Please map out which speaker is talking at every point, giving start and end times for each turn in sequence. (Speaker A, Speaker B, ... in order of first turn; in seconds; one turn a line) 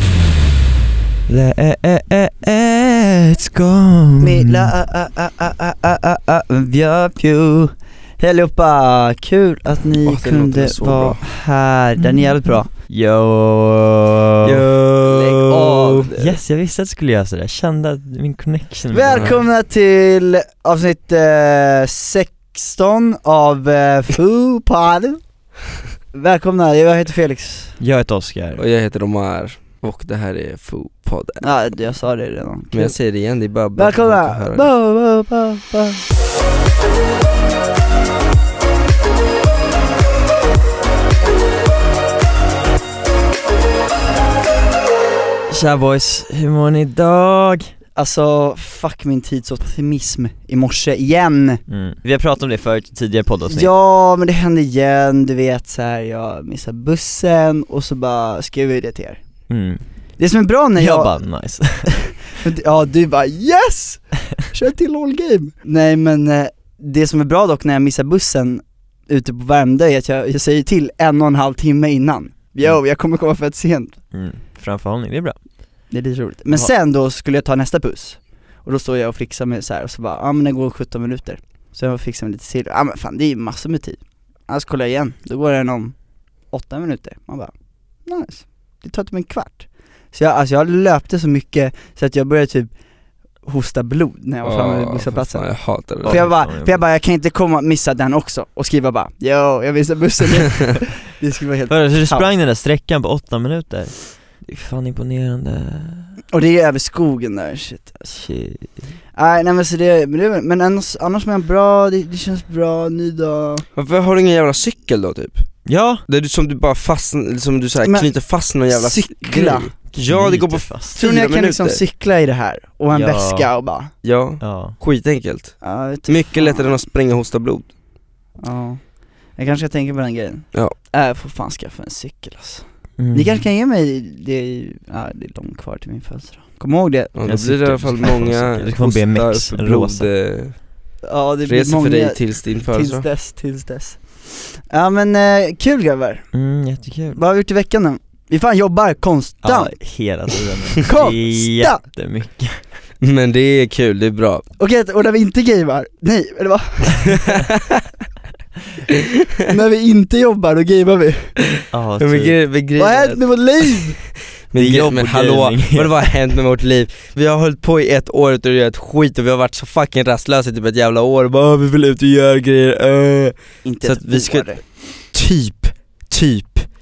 Speaker A: 1.3-4.7
Speaker B: 4.2-12.7
Speaker C: 10.0-11.2
Speaker A: 12.0-19.4
Speaker C: 14.4-16.4
Speaker B: 15.3-16.1
Speaker B: 18.9-25.2
Speaker B: 26.1-27.8
Speaker A: 27.8-28.6
Speaker C: 28.6-31.4
Speaker B: 31.4-33.0
Speaker C: 32.7-34.7
Speaker B: 33.8-36.0
Speaker A: 45.5-47.7
Speaker B: 48.0-51.6
Speaker A: 51.7-53.7
Speaker B: 53.5-59.2
Speaker A: 59.5-59.8
Speaker B: 60.2-61.2
Speaker A: 60.8-61.9
Speaker B: 62.4-74.0
Speaker A: 74.1-75.4
Speaker B: 75.9-85.9
Speaker B: 86.5-87.5
Speaker B: 88.0-92.7
Speaker B: 93.4-102.3
Speaker C: 94.4-96.2
Speaker A: 96.0-96.8
Speaker A: 101.7-106.1
Speaker B: 106.3-108.2
Speaker A: 108.1-108.7
Speaker B: 109.1-113.6
Speaker C: 113.8-121.8
Speaker A: 115.7-116.0
Speaker B: 117.8-118.1
Speaker B: 118.6-119.7
Speaker A: 119.9-121.0
Speaker B: 120.9-123.9
Speaker A: 122.9-123.5
Speaker C: 124.0-127.7
Speaker A: 124.4-124.8
Speaker B: 125.6-126.8
Speaker B: 128.4-137.2
Speaker A: 133.0-133.4
Speaker C: 137.1-140.6
Speaker A: 137.2-140.1
Speaker B: 141.0-144.0
Speaker C: 141.4-143.1
Speaker B: 144.7-146.3
Speaker A: 146.3-147.2
Speaker B: 147.1-149.8
Speaker A: 149.4-152.6
Speaker B: 150.8-151.8
Speaker C: 153.0-154.4
Speaker B: 154.6-157.2
Speaker B: 159.5-161.3
Speaker A: 161.7-162.4
Speaker C: 162.0-163.8
Speaker B: 162.8-164.0
Speaker C: 164.5-176.7
Speaker A: 164.5-166.1
Speaker B: 173.6-174.6